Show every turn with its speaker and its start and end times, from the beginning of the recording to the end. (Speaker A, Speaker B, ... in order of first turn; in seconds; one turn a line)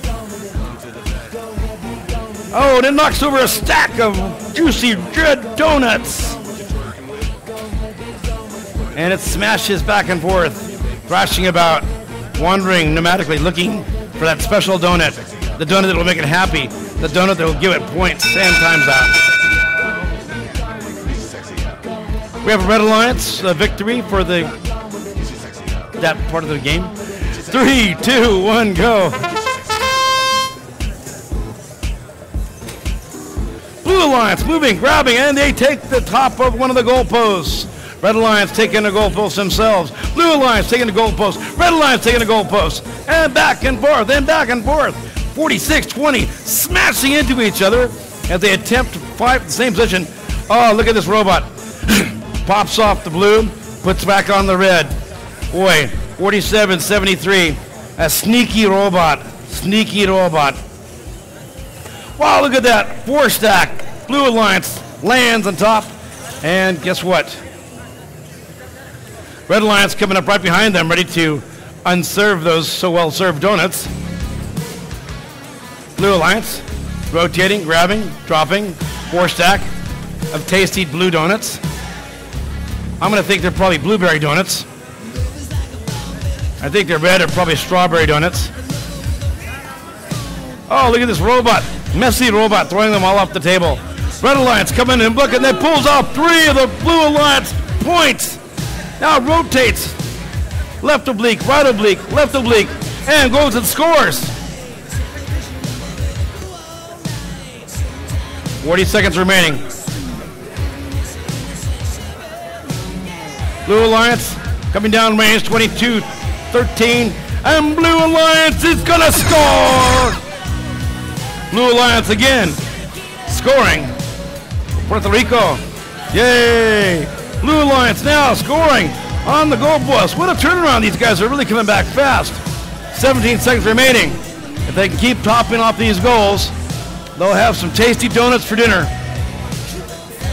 Speaker A: 2.5-6.4
Speaker A: 8.9-19.1
Speaker A: 22.4-24.5
Speaker A: 25.9-29.2
Speaker A: 33.8-54.9
Speaker A: 55.5-60.6
Speaker A: 62.2-67.4
Speaker A: 69.5-73.9
Speaker A: 76.0-79.7
Speaker A: 80.3-81.6
Speaker A: 83.0-84.7
Speaker A: 86.6-88.5
Speaker A: 90.7-98.4
Speaker A: 99.0-100.0
Speaker A: 100.8-104.3
Speaker A: 108.6-109.6
Speaker A: 113.7-120.2
Speaker A: 121.5-122.6
Speaker A: 123.3-123.9
Speaker A: 124.8-136.5
Speaker A: 137.2-138.9